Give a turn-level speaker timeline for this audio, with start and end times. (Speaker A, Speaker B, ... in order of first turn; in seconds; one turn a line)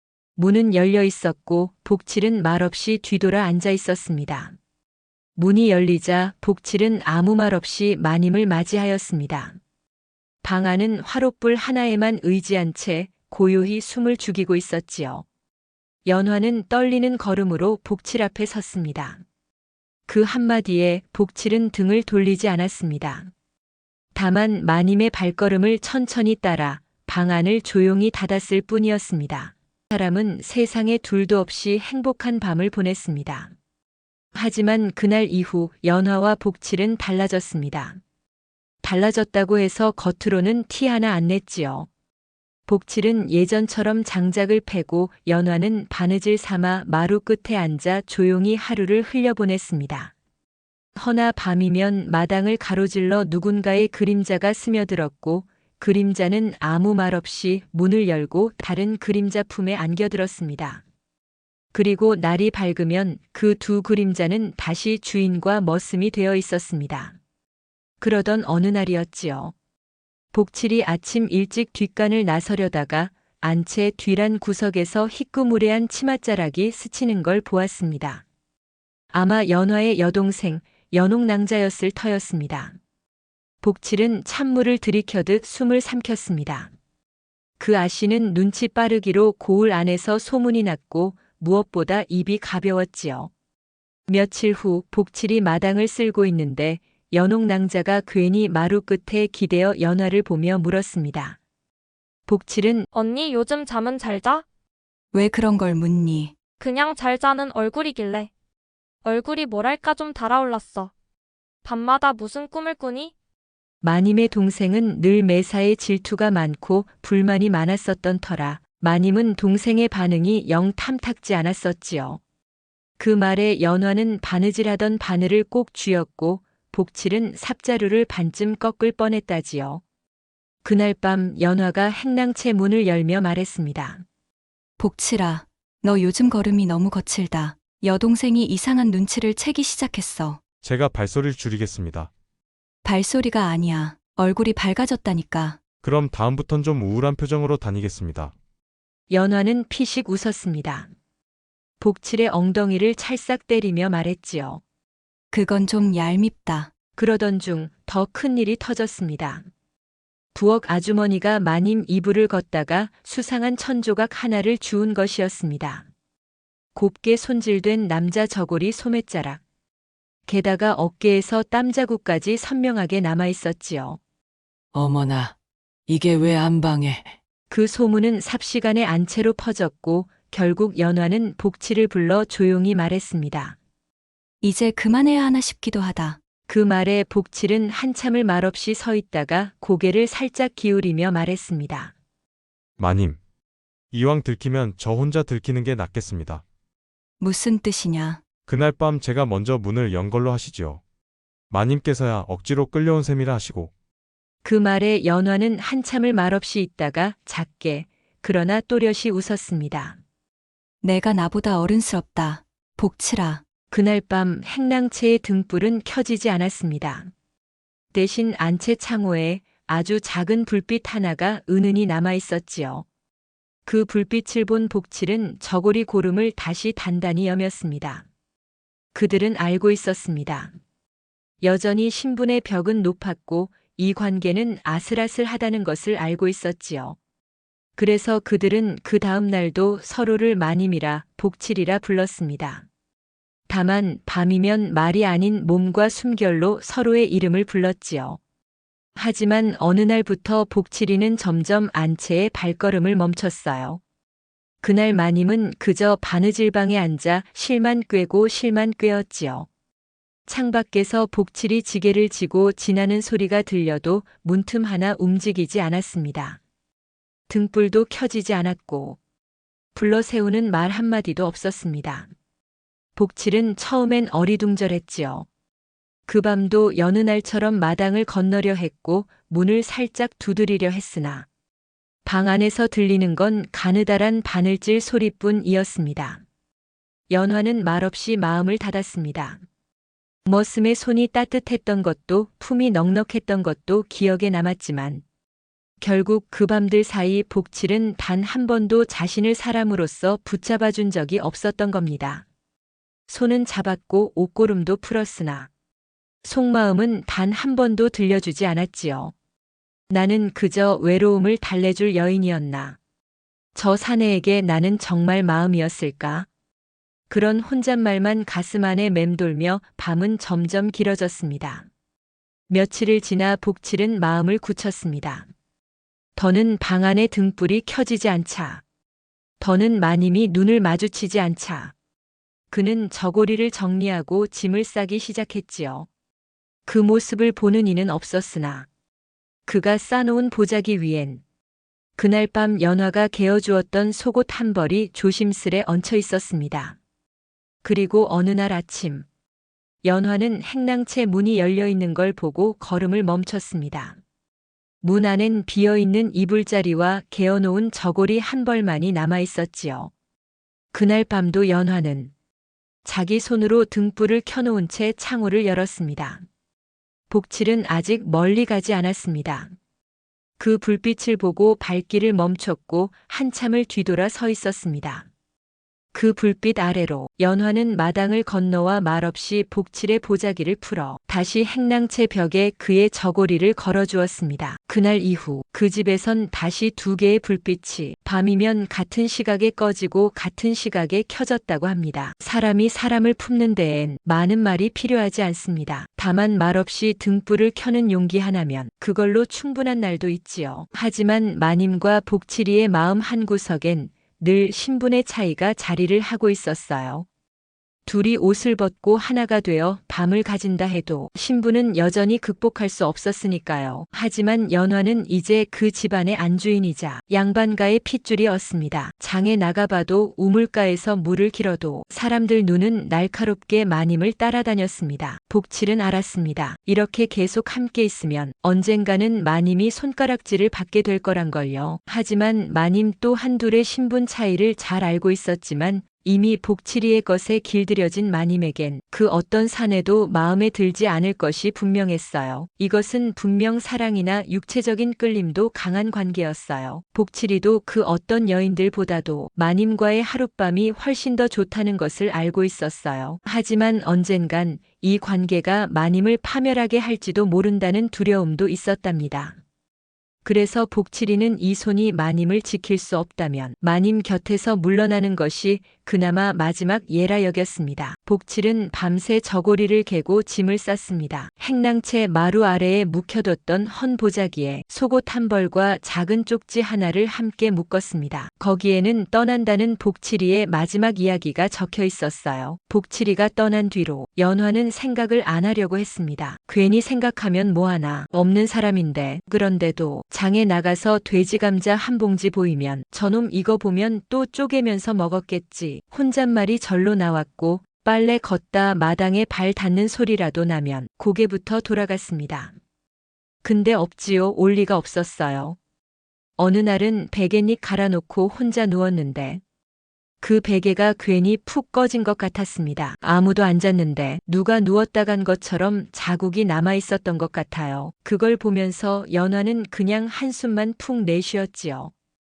Speaker A: 0.4-4.5
Speaker A: 5.4-9.6
Speaker A: 10.4-15.2
Speaker A: 16.0-19.2
Speaker A: 20.1-23.3
Speaker A: 24.1-33.5
Speaker A: 34.3-38.0
Speaker A: 38.8-41.9
Speaker A: 42.7-50.1
Speaker A: 51.0-60.8
Speaker A: 61.7-67.1
Speaker A: 68.0-69.5
Speaker A: 70.3-78.2
Speaker A: 79.1-82.8
Speaker A: 83.6-86.7
Speaker A: 87.6-93.3
Speaker A: 94.1-101.4
Speaker A: 102.3-102.9
Speaker B: 102.9-104.4
Speaker C: 105.1-106.3
Speaker B: 106.6-108.3
Speaker B: 109.0-110.9
Speaker B: 111.6-113.1
Speaker A: 113.8-122.2
Speaker A: 123.0-129.8
Speaker A: 130.6-134.0
Speaker C: 134.8-140.4
Speaker D: 140.6-142.1
Speaker C: 142.8-145.6
Speaker D: 145.8-148.3
Speaker A: 149.1-150.9
Speaker A: 151.8-154.6
Speaker C: 155.3-156.7
Speaker A: 157.0-159.4
Speaker A: 160.3-165.8
Speaker A: 166.7-169.4
Speaker A: 170.3-174.0
Speaker E: 174.7-175.3
Speaker E: 175.9-177.2
Speaker A: 177.5-183.6
Speaker C: 184.4-186.2
Speaker A: 186.5-191.9
Speaker D: 192.8-193.2
Speaker D: 193.9-196.4
Speaker C: 197.2-198.2
Speaker D: 198.5-200.8
Speaker D: 201.5-203.7
Speaker A: 204.4-210.0
Speaker C: 210.8-213.4
Speaker A: 213.7-217.1
Speaker A: 217.9-222.8
Speaker A: 223.7-228.0
Speaker A: 228.9-230.5
Speaker A: 231.4-237.0
Speaker A: 237.8-242.6
Speaker A: 243.5-248.2
Speaker A: 248.9-253.8
Speaker A: 254.6-259.5
Speaker A: 260.3-266.4
Speaker A: 267.3-269.0
Speaker A: 269.7-272.1
Speaker A: 272.9-275.2
Speaker A: 276.1-281.2
Speaker A: 282.0-286.2
Speaker A: 287.1-289.4
Speaker A: 290.2-295.0
Speaker A: 295.8-302.2
Speaker A: 303.1-305.5
Speaker A: 306.2-309.1
Speaker A: 309.9-312.8
Speaker A: 313.5-316.3
Speaker A: 317.1-321.7
Speaker A: 322.5-325.3
Speaker A: 326.1-328.6
Speaker A: 329.4-331.7
Speaker A: 332.5-335.9
Speaker A: 336.7-338.7
Speaker A: 339.5-341.2
Speaker A: 342.0-346.8
Speaker A: 347.6-349.0
Speaker A: 349.8-354.0
Speaker A: 354.8-359.9
Speaker A: 360.7-362.1
Speaker A: 362.8-366.2
Speaker A: 367.1-369.5
Speaker A: 370.4-375.1
Speaker A: 375.9-407.1
Speaker A: 407.9-459.4
Speaker A: 460.2-502.5
Speaker A: 503.4-505.6
Speaker A: 506.4-509.4
Speaker A: 510.2-521.9